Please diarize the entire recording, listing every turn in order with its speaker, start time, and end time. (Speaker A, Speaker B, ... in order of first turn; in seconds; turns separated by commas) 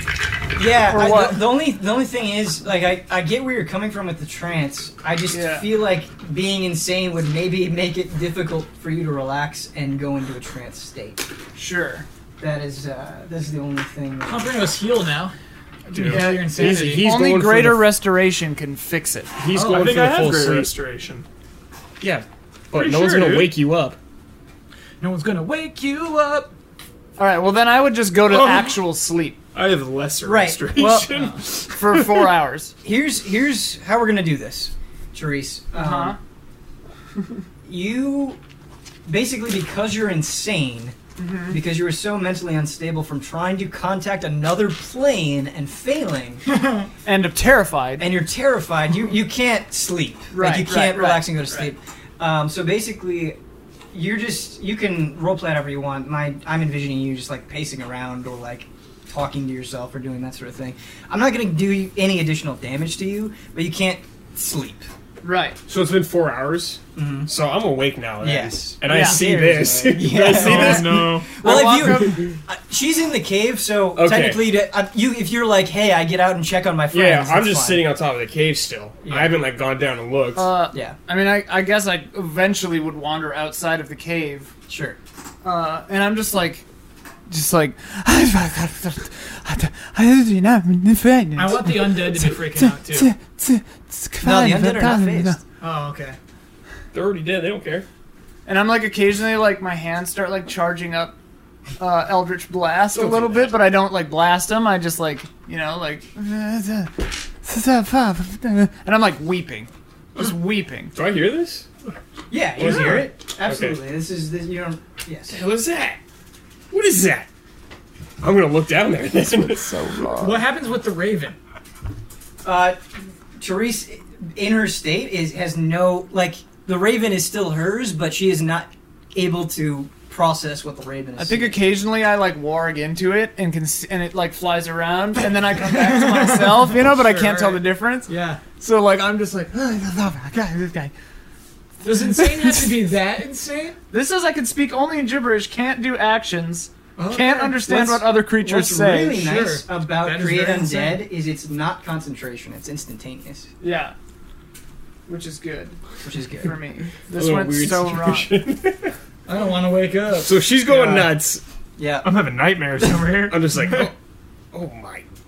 Speaker A: 0.6-11.3, Speaker B: 0.8-1.5, Speaker B: 5.3-5.7, Speaker B: 11.6-12.1, Speaker A: 12.4-14.7, Speaker C: 14.2-15.3, Speaker D: 15.9-16.3, Speaker C: 15.9-17.1, Speaker B: 16.0-19.3, Speaker E: 16.3-18.0, Speaker E: 19.4-20.7, Speaker C: 19.5-20.3, Speaker D: 19.6-21.3, Speaker E: 22.0-24.0, Speaker D: 22.7-23.6, Speaker C: 25.0-26.5, Speaker B: 27.2-29.4, Speaker D: 28.2-28.8, Speaker D: 29.5-32.1, Speaker A: 30.2-31.1, Speaker B: 31.7-32.7, Speaker A: 32.8-36.2, Speaker B: 35.7-36.2, Speaker A: 37.6-38.4, Speaker A: 39.1-41.0, Speaker B: 41.2-41.6, Speaker A: 41.5-46.5, Speaker B: 47.0-48.1, Speaker A: 48.0-53.4, Speaker B: 50.3-51.7, Speaker A: 53.9-64.9, Speaker B: 65.2-65.6, Speaker E: 65.7-71.0, Speaker A: 67.0-67.3, Speaker A: 68.2-77.9, Speaker B: 68.8-69.2, Speaker D: 70.2-71.3, Speaker B: 70.5-72.3, Speaker E: 74.0-74.5, Speaker E: 76.9-80.5, Speaker A: 79.0-79.4, Speaker B: 80.4-84.5, Speaker A: 84.7-85.0, Speaker B: 85.4-86.7, Speaker B: 87.3-95.4, Speaker C: 91.3-93.1, Speaker A: 94.2-95.4, Speaker C: 95.6-96.2, Speaker E: 96.9-97.9, Speaker B: 98.5-101.2, Speaker B: 101.8-111.0, Speaker E: 103.0-103.5, Speaker E: 110.9-111.7, Speaker A: 112.3-115.4, Speaker E: 112.6-113.8, Speaker E: 115.3-116.0, Speaker E: 116.7-117.3, Speaker E: 118.2-119.8, Speaker B: 119.5-120.4, Speaker C: 120.2-121.4, Speaker A: 122.4-131.7, Speaker B: 131.2-140.9, Speaker C: 135.7-138.4, Speaker C: 141.8-143.8, Speaker B: 142.1-142.7, Speaker B: 143.9-149.2, Speaker C: 147.0-147.8, Speaker A: 147.7-153.5, Speaker C: 149.1-151.1, Speaker B: 153.6-153.9, Speaker B: 155.1-155.8, Speaker A: 156.0-156.6, Speaker B: 156.4-158.3, Speaker E: 157.1-158.9, Speaker C: 159.3-160.4, Speaker E: 160.2-161.4, Speaker A: 161.8-162.2, Speaker D: 162.0-163.9, Speaker E: 163.2-163.9, Speaker E: 164.5-165.1